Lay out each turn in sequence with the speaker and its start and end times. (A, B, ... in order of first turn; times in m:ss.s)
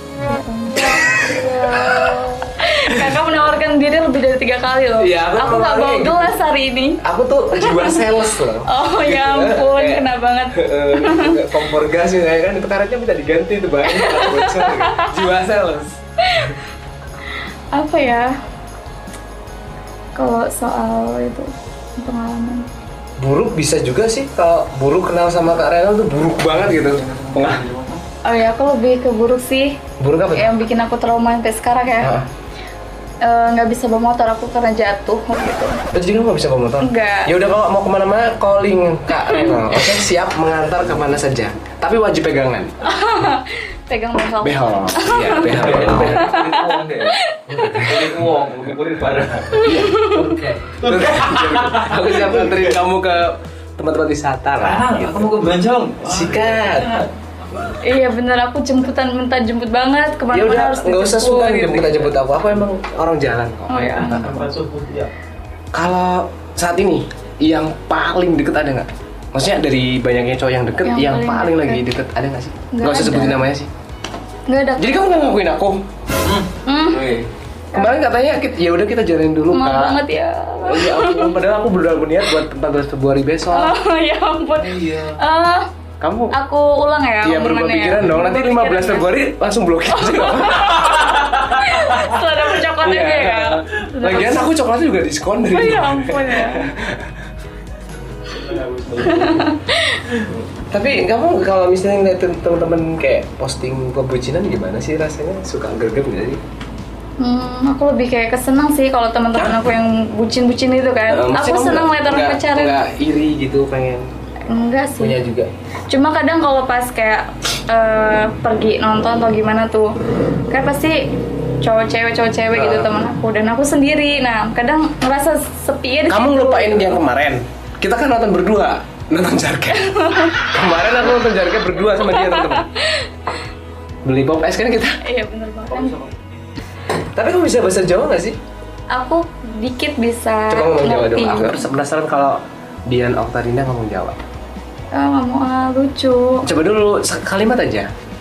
0:00.2-0:07.0 A
0:01.1-0:02.2 B
0:05.0-0:06.4 B
0:07.0-0:16.6 B
0:07.5-0:11.7 A
0:13.8-0:15.3 A
0:16.2-0:16.6 A
0:17.7-0:18.4 A
0:20.2-0:22.7 A
0:23.2-0:27.6 B
0:26.6-0:28.0 C
0:28.2-0:29.8 A
0:30.0-0:30.6 B
0:30.3-0:32.1 A
0:32.0-0:32.3 B
0:33.2-0:35.8 A
0:35.9-0:42.8 B
0:36.8-0:37.3 A
0:39.2-0:39.8 A
0:42.8-0:48.0 A
0:44.4-0:46.4 B
0:45.4-0:52.8 C
0:47.5-0:48.1 B
0:49.6-0:55.3 B
0:49.6-0:50.4 A
0:54.6-0:57.8 C
0:56.1-0:56.9 B
0:57.8-1:01.9 A
1:00.3-1:04.5 B
1:03.7-1:04.4 A
1:04.0-1:05.1 C
1:05.7-1:13.7 B
1:10.8-1:11.8 A
1:12.7-1:13.5 A
1:14.5-1:15.1 A
1:14.8-1:15.8 B
1:16.2-1:17.3 C
1:16.6-1:17.2 A
1:17.7-1:20.0 B
1:19.5-1:21.4 A
1:20.6-1:23.8 B
1:23.5-1:25.7 A
1:24.6-1:25.2 C
1:26.0-1:26.4 B
1:26.3-1:29.1 A
1:27.2-1:31.2 B
1:29.9-1:34.5 A
1:31.1-1:31.6 C
1:32.8-1:37.2 B
1:35.5-1:36.7 A
1:38.2-1:39.5 C
1:39.0-1:40.1 A
1:40.2-1:40.4 C
1:40.7-1:46.4 B
1:47.2-1:52.8 A
1:51.1-1:54.0 B
1:54.5-1:55.2 A
1:55.0-1:55.5 B
1:55.9-2:01.1 A
2:01.6-2:07.0 A
2:02.5-2:02.9 B
2:06.1-2:12.7 B
2:09.7-2:10.5 A
2:12.0-2:13.2 A
2:14.0-2:15.0 B
2:15.0-2:16.0 A
2:15.7-2:16.5 C
2:17.0-2:18.4 B
2:18.9-2:21.7 A
2:20.5-2:24.2 B
2:24.9-2:26.4 A
2:26.4-2:27.9 B